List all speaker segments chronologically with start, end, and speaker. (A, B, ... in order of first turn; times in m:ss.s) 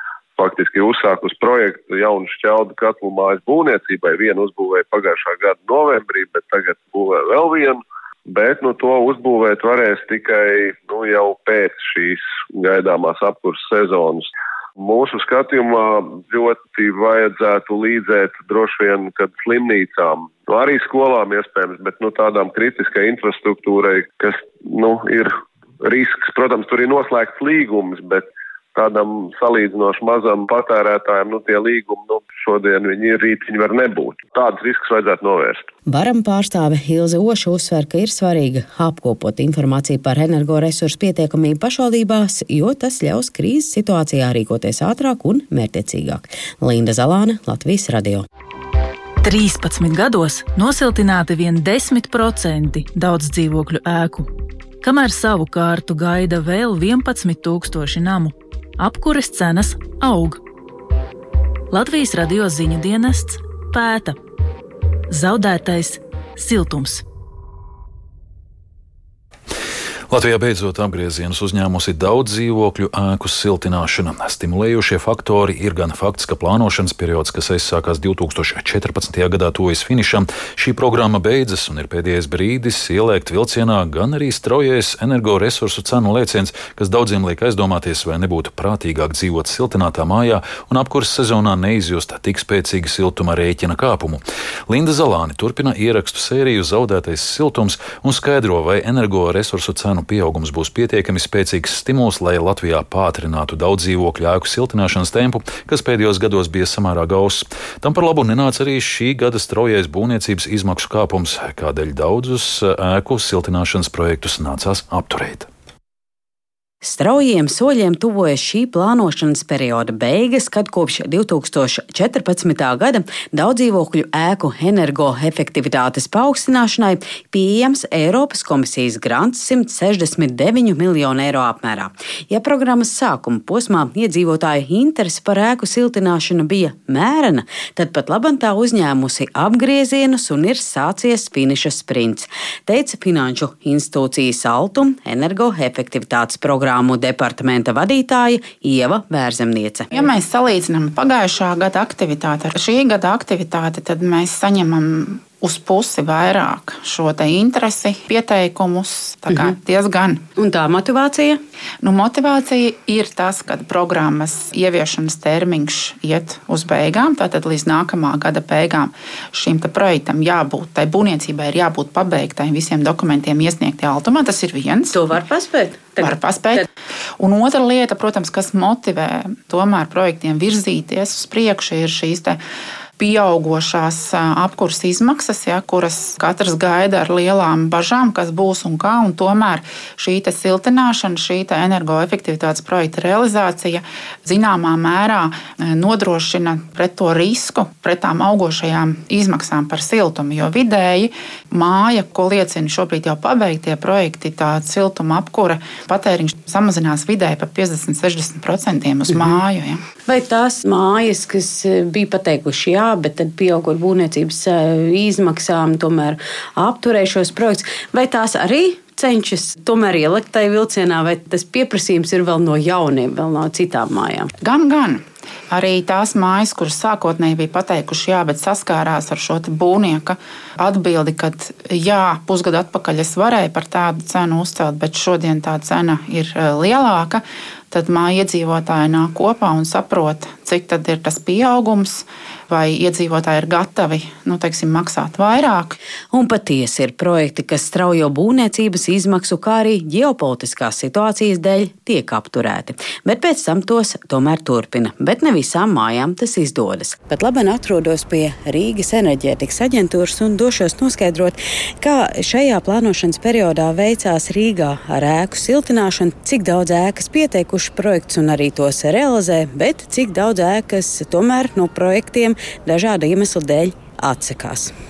0:00.4-0:35.7 A
0:35.8-0:48.2 B
0:49.2-0:54.3 C
0:54.8-1:00.4 C
1:01.7-1:04.2 C
1:05.1-1:07.0 C
1:10.1-1:55.5 D
1:56.8-2:29.9 B
2:29.9-2:40.2 E
2:39.3-2:39.6 B
2:40.4-2:41.4 B
2:41.8-2:55.0 E
2:54.9-2:56.6 B
2:56.0-2:56.6 E
2:57.2-3:02.4 E
3:03.0-3:29.8 E
3:30.1-3:44.3 B
3:44.4-4:05.8 E
4:06.1-4:34.7 B